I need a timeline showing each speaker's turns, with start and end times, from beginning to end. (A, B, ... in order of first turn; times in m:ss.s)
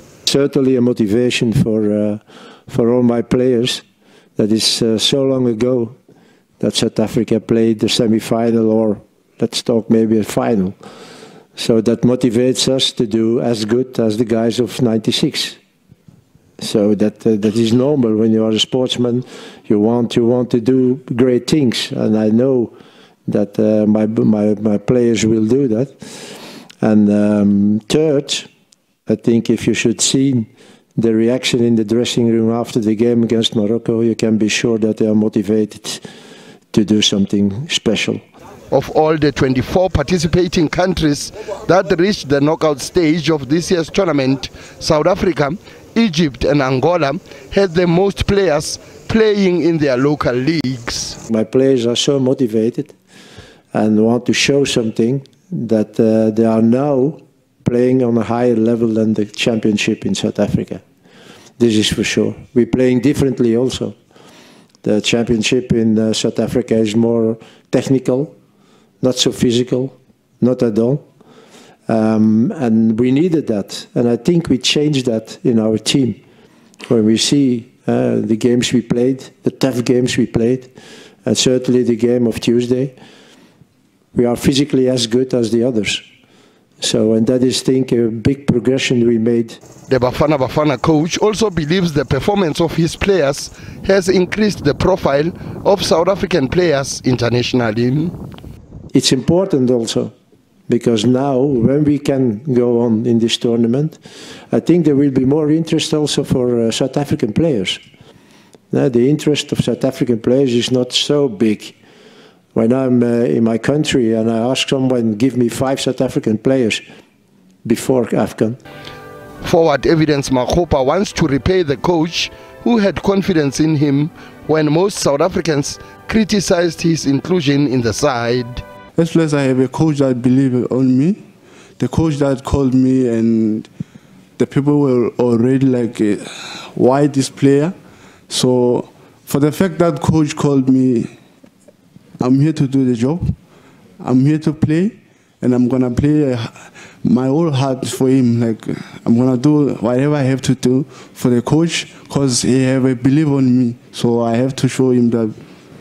0:00.2-0:03.8 A
0:04.4-0:05.9 A
0:06.6-0:10.8 A
0:11.6-0:15.6 A
0:16.6-0:22.7 A
0:23.2-0:26.0 A
0:26.8-0:28.5 A
0:29.1-0:36.0 A
0:36.7-0:38.2 A
0:38.7-0:51.2 B
0:51.3-0:52.9 A
0:53.7-1:00.8 A
1:01.6-1:03.9 A
1:04.8-1:08.3 A
1:09.0-1:11.0 A
1:11.9-1:16.2 A
1:16.9-1:20.7 A
1:21.2-1:22.9 A
1:24.1-1:26.0 A
1:26.8-1:29.6 A
1:29.9-1:38.1 B
1:38.9-1:40.1 A
1:40.7-1:44.0 A
1:44.5-1:47.8 A
1:48.7-1:51.8 A
1:52.5-1:56.8 A
1:57.6-1:58.6 A
1:59.4-2:08.6 B
2:09.0-2:11.2 C
2:11.8-2:13.7 C
2:14.4-2:17.7 C
2:18.3-2:21.1 C
2:22.2-2:23.3 C
2:24.0-2:35.3 C